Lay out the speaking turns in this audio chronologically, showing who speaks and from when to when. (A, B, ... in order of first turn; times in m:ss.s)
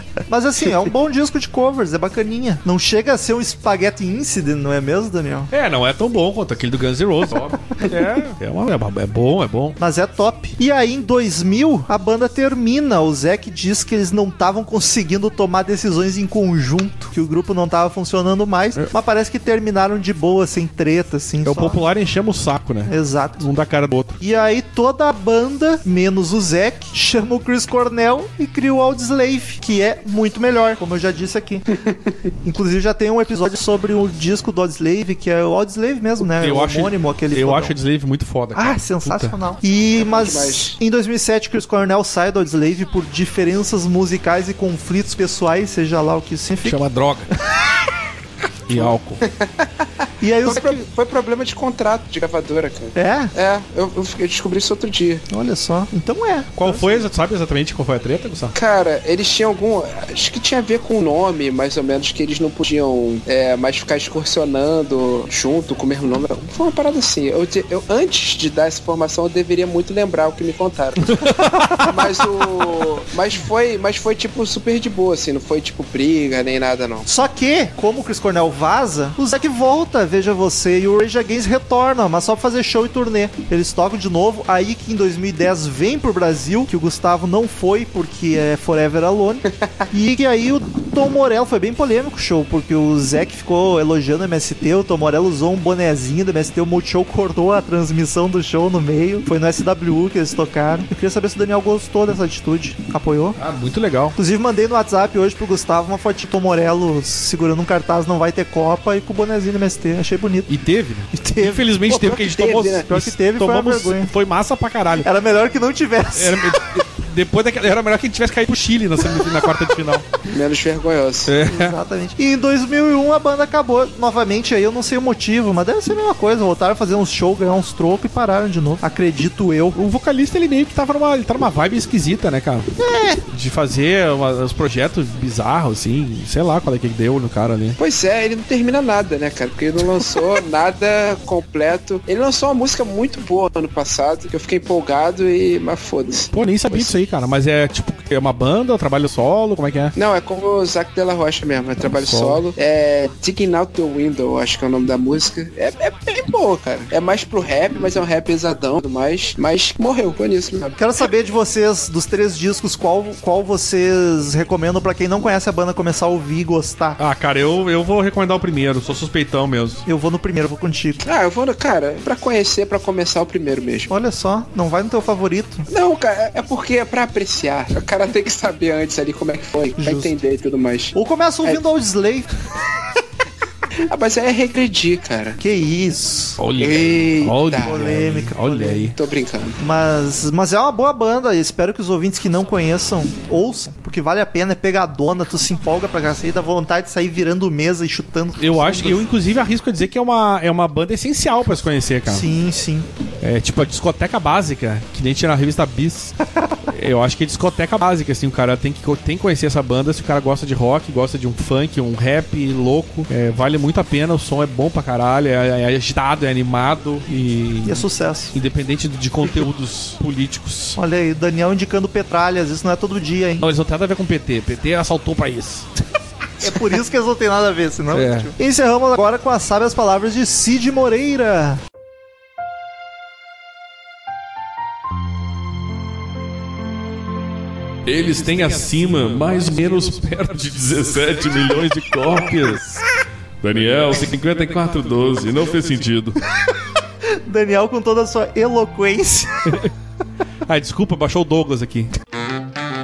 0:00.3-0:05.5 A
0:05.5-0:09.8 B
0:09.8-0:21.8 A
0:21.4-0:24.2 B
0:22.8-0:23.5 A
0:24.2-0:31.6 A
0:31.7-0:32.2 C
0:32.4-0:37.8 A
0:36.2-0:39.3 B
0:38.5-0:46.8 A
0:40.0-0:40.8 C
0:46.6-0:47.3 B
0:48.7-0:49.2 B
0:48.7-0:49.7 C
0:50.2-0:50.8 A
0:50.4-0:55.2 C
0:52.9-0:53.3 A
0:55.3-0:56.6 A
0:56.6-0:58.5 B
0:56.6-0:56.9 C
0:58.5-1:11.2 C
1:11.0-1:12.0 B
1:11.8-1:17.1 C
1:17.1-1:43.4 A
1:43.4-1:44.2 B
1:44.2-1:50.5 A
1:50.5-1:55.1 B
1:51.1-1:52.0 A
1:51.9-1:52.9 C
1:52.9-1:54.1 A
1:55.0-1:56.6 A
1:56.1-2:00.0 B
2:00.2-2:01.3 C
2:01.2-2:01.8 B
2:01.4-2:09.8 A
2:09.7-2:12.7 B
2:12.8-2:13.2 A
2:13.3-2:17.8 B
2:17.8-2:26.9 C
2:26.3-2:29.9 B
2:30.0-2:40.8 C
2:31.9-2:32.4 B
2:40.8-2:47.0 A
2:47.0-2:49.8 B
2:49.8-2:51.0 A
2:51.0-2:53.9 C
2:53.9-2:55.6 A
2:55.7-3:01.6 C
2:59.8-3:00.1 A
3:00.9-3:02.3 A
3:03.9-3:05.4 C
3:05.4-3:06.4 A
3:06.4-3:08.9 B
3:06.6-3:07.9 C
3:07.6-3:08.8 A
3:08.7-3:09.6 C
3:09.6-3:19.1 A
3:18.4-3:22.3 B
3:22.0-3:22.9 A
3:23.2-3:26.2 B
3:26.7-3:40.8 B
3:37.6-3:38.3 A
3:40.8-3:43.4 A
3:43.4-3:45.7 B
3:46.4-3:51.6 A
3:47.9-3:48.3 B
3:57.8-4:02.8 B
4:03.4-4:06.2 B
4:06.3-4:09.6 A
4:09.4-4:09.7 B
4:10.4-4:11.9 B